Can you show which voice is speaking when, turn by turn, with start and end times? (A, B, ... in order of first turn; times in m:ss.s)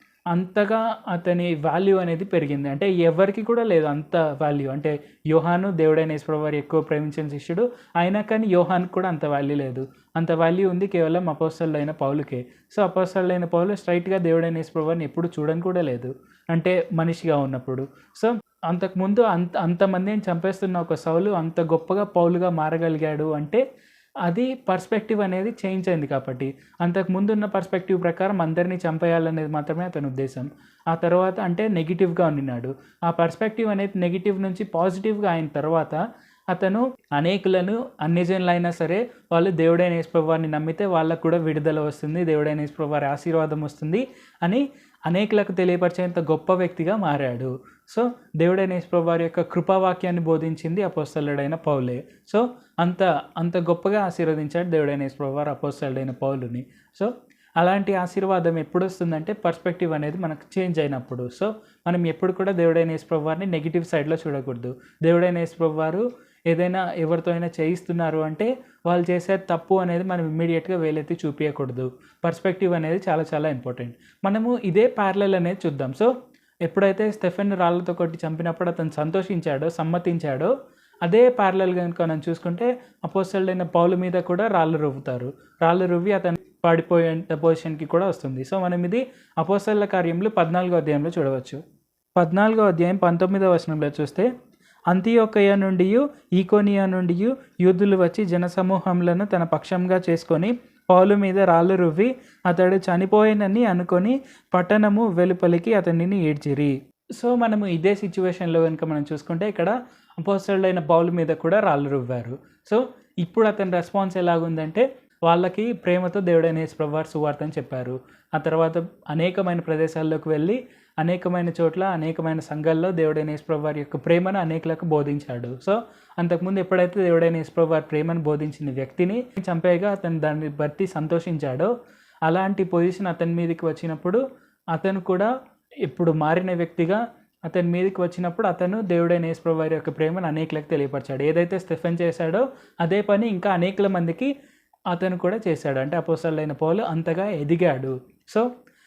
0:00.3-0:23.6 A
0:24.2-1:16.1 A
1:16.6-1:20.5 A
1:21.0-1:31.6 A
1:32.2-1:34.3 A
1:34.9-2:11.7 A
2:12.2-2:14.2 A
2:14.7-2:15.3 A
2:15.8-2:24.3 A
2:24.9-2:28.5 A